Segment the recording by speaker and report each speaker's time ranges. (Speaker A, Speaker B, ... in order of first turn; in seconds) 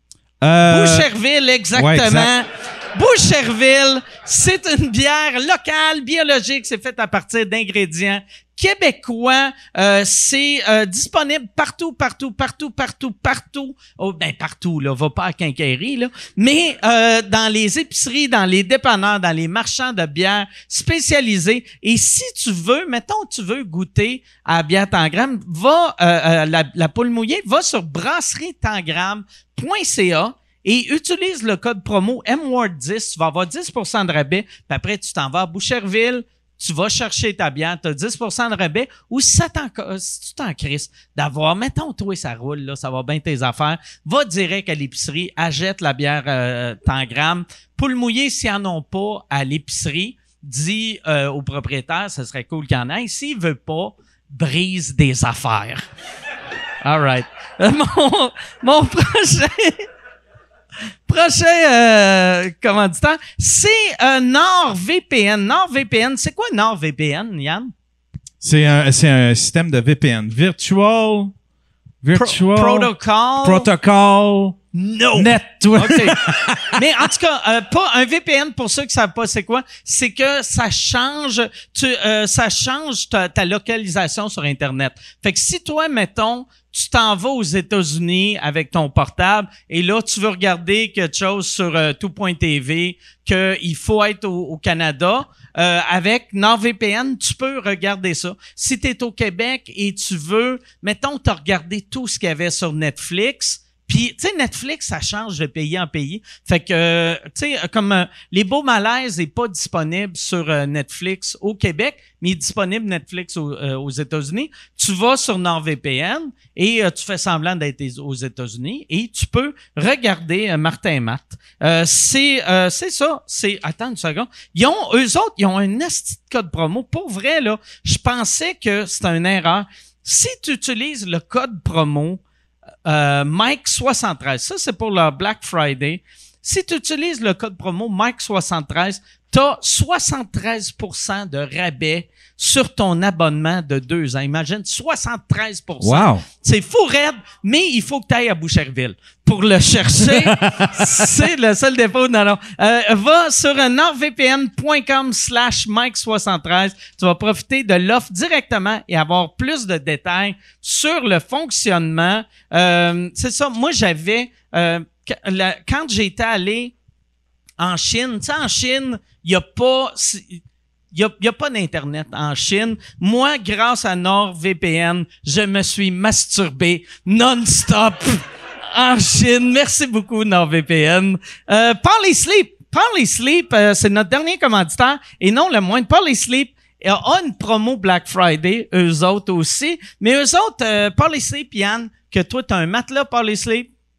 Speaker A: 0.4-1.1, 1.7-2.3, 68.4-71.3, 72.0-74.6, 75.2-76.8, 145.8-146.2, 150.1-151.1
Speaker B: 0.7-55.9, 56.8-59.9, 61.1-67.7, 72.1-73.7, 74.7-132.2, 132.8-166.7, 167.6-170.4, 170.9-193.7